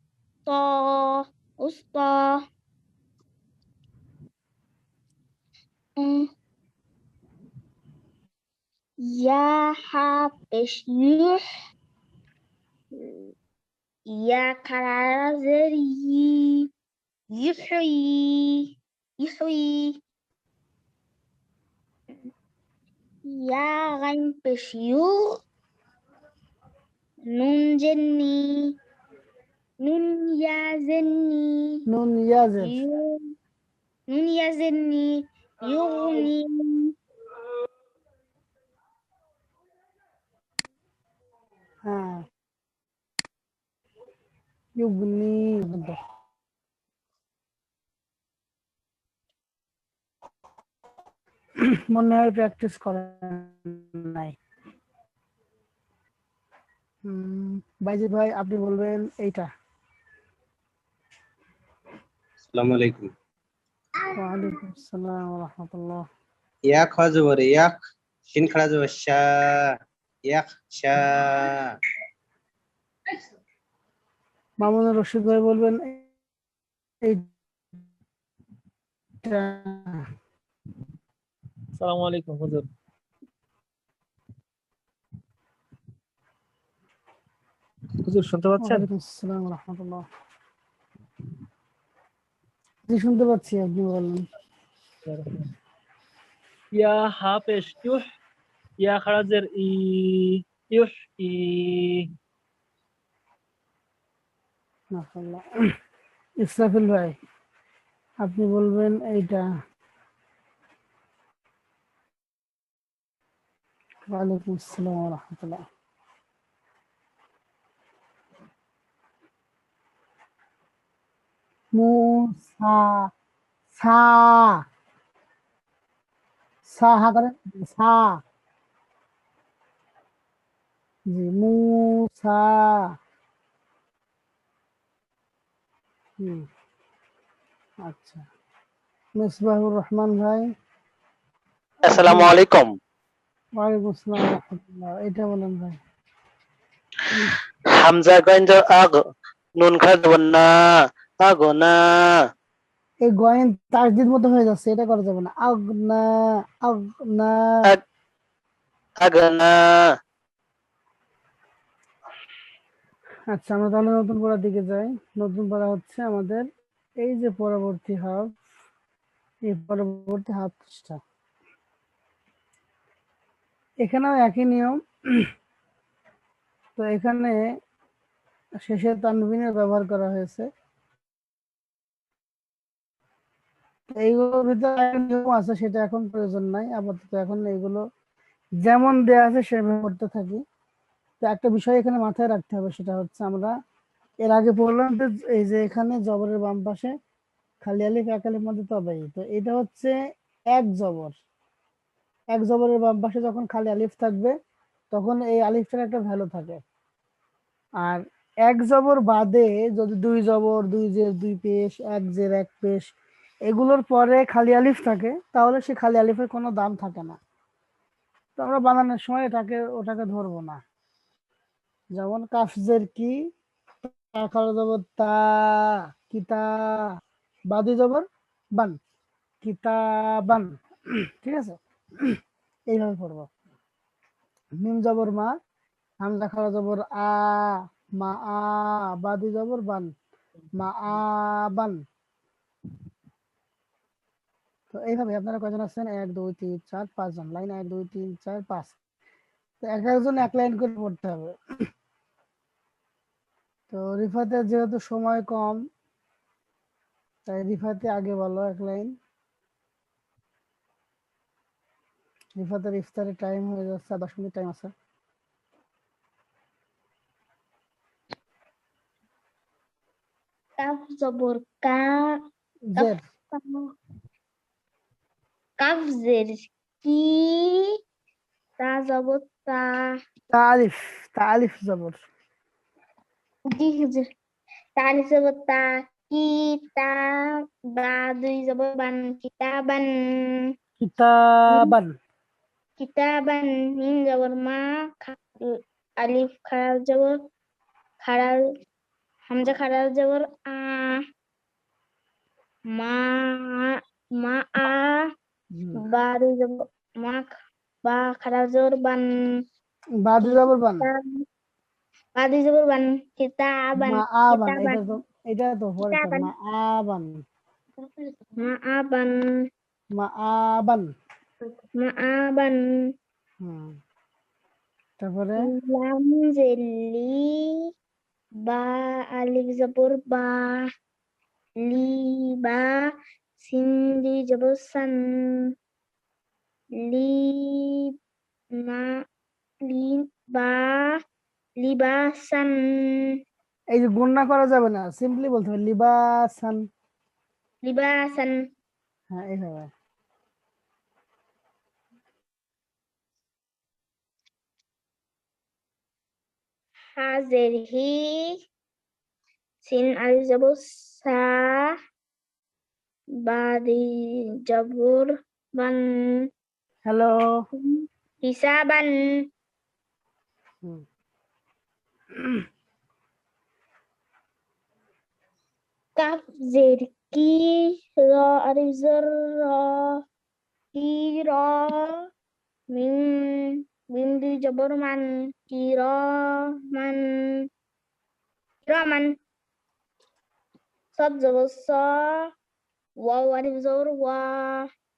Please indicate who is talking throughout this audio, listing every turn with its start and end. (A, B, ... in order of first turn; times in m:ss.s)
0:00.4-0:02.4 A
0:06.0-0:06.3 A
0:09.0-0:11.4 A
0:12.9-0:13.3 A
0:14.1-0:16.7 A
0:17.3-0:20.0 A
0:23.2-0:25.4 A
0:27.3-0:28.7 A
0:29.8-0:31.8 A
0:31.9-0:32.8 B
0:32.6-0:33.1 A
0:34.1-0:36.9 A
0:41.8-0:42.2 B
0:44.8-0:46.0 B
0:51.9-0:54.4 B
0:57.0-0:59.5 B
1:02.4-1:03.1 C
1:04.1-1:06.0 B
1:06.6-1:07.7 C
1:08.3-1:09.7 C
1:10.2-1:11.6 C
1:14.6-1:16.0 B
1:19.2-1:20.0 B
1:21.8-1:22.6 D
1:28.0-1:28.8 D
1:28.6-1:30.0 B
1:32.9-1:34.2 B
1:35.1-1:35.5 D
1:36.8-1:38.0 D
1:38.8-1:42.0 D
1:44.9-1:45.4 B
1:46.4-1:47.2 B
1:48.2-1:49.4 B
1:54.1-1:55.6 B
2:01.8-2:03.1 B
2:03.8-2:04.6 B
2:06.6-2:08.2 B
2:11.1-2:12.8 B
2:17.8-2:18.2 B
2:19.2-2:20.5 B
2:21.8-2:22.7 E
2:21.9-2:22.3 B
2:23.6-2:25.8 B
2:27.7-2:29.0 E
2:29.6-2:30.5 E
2:31.2-2:32.3 E
2:33.0-2:36.0 B
2:36.6-2:37.4 B
2:39.0-2:39.9 E
2:43.3-2:46.4 B
2:47.0-2:48.3 B
2:49.5-2:51.0 B
2:53.8-2:55.2 B
2:56.8-2:57.4 B
2:58.6-3:00.5 B
3:03.9-3:07.8 B
3:08.6-3:10.4 B
3:11.2-3:13.5 B
3:14.2-3:16.9 B
3:17.6-3:19.9 B
3:20.5-3:21.1 B
3:22.3-3:24.3 B
3:24.9-3:26.6 B
3:27.8-3:32.9 B
3:33.5-3:37.2 B
3:38.4-3:40.6 B
3:42.0-3:43.2 B
3:43.8-3:46.9 B
3:47.5-3:48.0 B
3:49.4-3:50.5 B
3:51.1-3:52.2 B
3:52.7-3:53.3 B
3:54.6-3:55.3 B
3:56.0-3:59.9 B
4:00.6-4:01.8 B
4:04.7-4:08.8 B
4:09.6-4:11.4 B
4:13.7-4:15.6 B
4:17.3-4:18.9 B
4:22.4-4:24.7 B
4:30.6-4:32.2 A
4:32.7-4:33.0 B
4:32.8-4:33.7 A
4:35.6-4:37.6 A
4:38.6-4:39.9 A
4:40.3-4:42.0 B
4:43.5-4:44.0 A
4:44.8-4:47.1 A
4:47.7-4:50.5 A
4:50.8-4:51.9 B
4:52.8-4:57.2 A
4:58.0-4:58.4 A
4:59.3-5:01.0 A
5:02.7-5:05.1 A
5:05.5-5:05.8 B
5:05.8-5:07.3 A
5:07.8-5:09.1 A
5:10.0-5:10.9 B
5:10.2-5:11.0 A
5:12.1-5:14.8 A
5:13.8-5:17.2 B
5:15.8-5:16.3 A
5:17.8-5:19.2 A
5:20.0-5:20.9 B
5:21.5-5:22.6 A
5:23.4-5:23.8 B
5:25.0-5:25.5 B
5:25.4-5:27.6 A
5:28.4-5:30.6 A
5:31.6-5:35.5 A
5:36.8-5:37.9 A
5:38.5-5:38.9 A
5:39.7-5:41.0 A
5:41.6-5:43.1 A
5:43.7-5:46.6 B
5:47.6-5:48.4 A
5:49.1-5:49.7 B
5:57.0-5:58.4 A
5:59.6-6:01.7 A
6:03.2-6:06.3 A
6:06.8-6:07.4 B
6:07.6-6:09.0 A
6:16.0-6:20.0 A
6:20.7-6:22.0 A
6:22.7-6:27.4 A
6:28.6-6:29.2 A
6:30.9-6:32.3 A
6:33.0-6:34.7 A